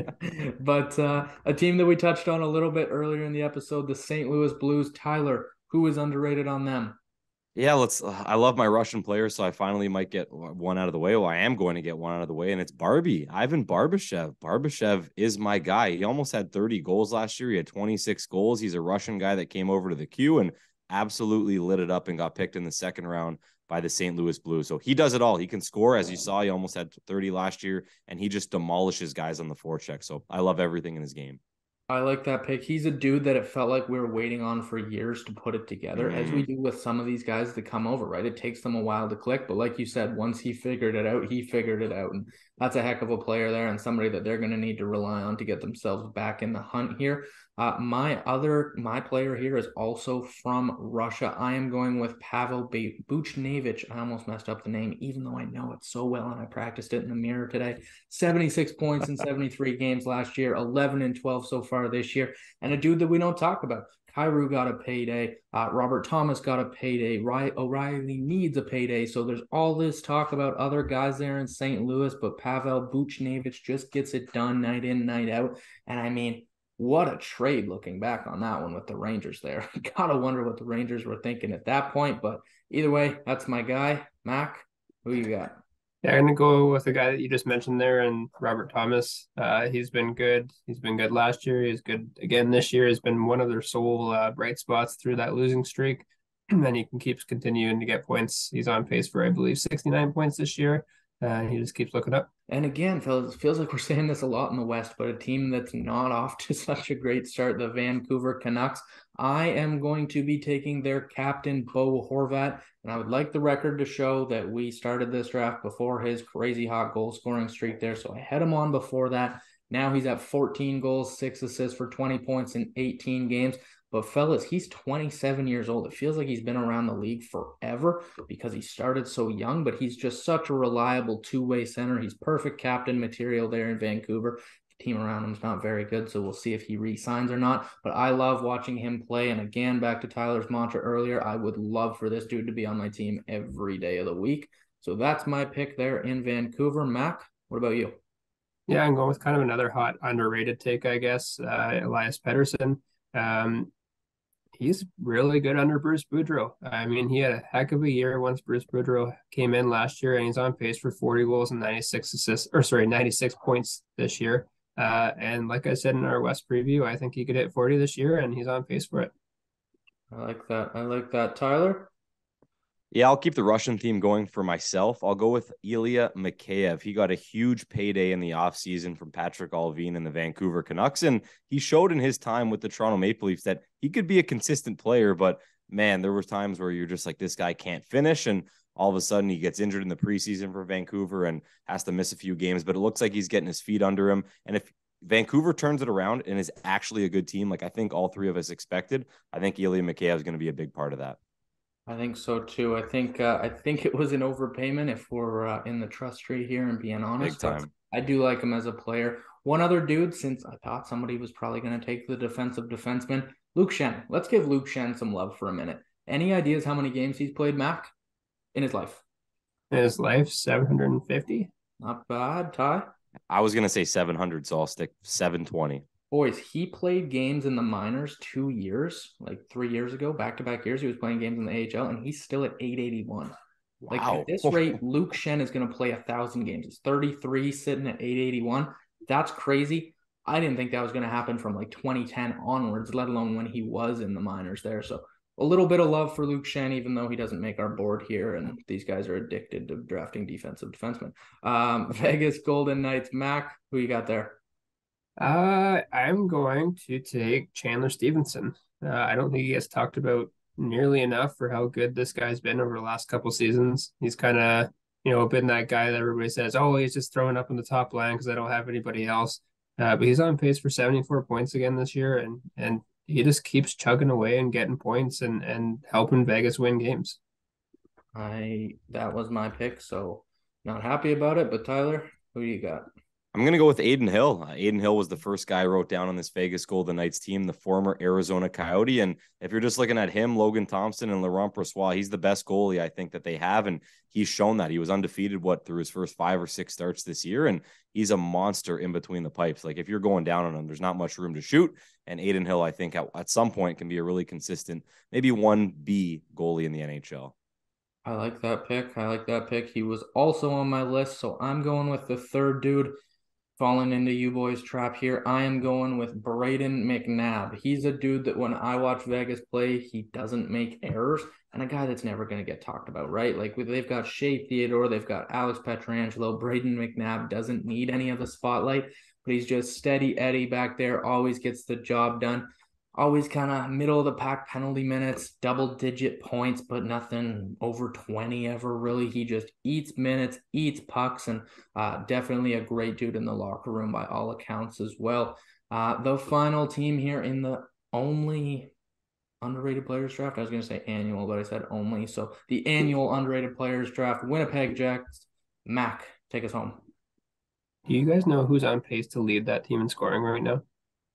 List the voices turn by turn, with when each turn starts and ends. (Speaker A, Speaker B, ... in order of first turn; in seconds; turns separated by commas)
Speaker A: 0.2-7.0, Speaker B: 7.5-31.4, Speaker A: 31.9-85.5, Speaker B: 36.0-36.5, Speaker C: 86.0-102.3, Speaker A: 102.5-148.0, Speaker C: 148.7-153.7, Speaker C: 154.6-169.1, Speaker A: 170.1-171.9, Speaker B: 172.9-201.2, Speaker A: 201.9-217.9, Speaker B: 207.2-207.7, Speaker A: 218.5-219.0, Speaker C: 219.7-221.5, Speaker A: 221.8-222.9, Speaker B: 223.3-225.8, Speaker A: 226.1-233.3, Speaker B: 233.8-234.6, Speaker A: 233.9-254.4, Speaker C: 255.2-277.2, Speaker A: 278.1-282.9, Speaker B: 283.3-307.3, Speaker A: 308.0-312.9, Speaker A: 313.6-348.7, Speaker A: 349.4-356.8, Speaker C: 357.9-360.6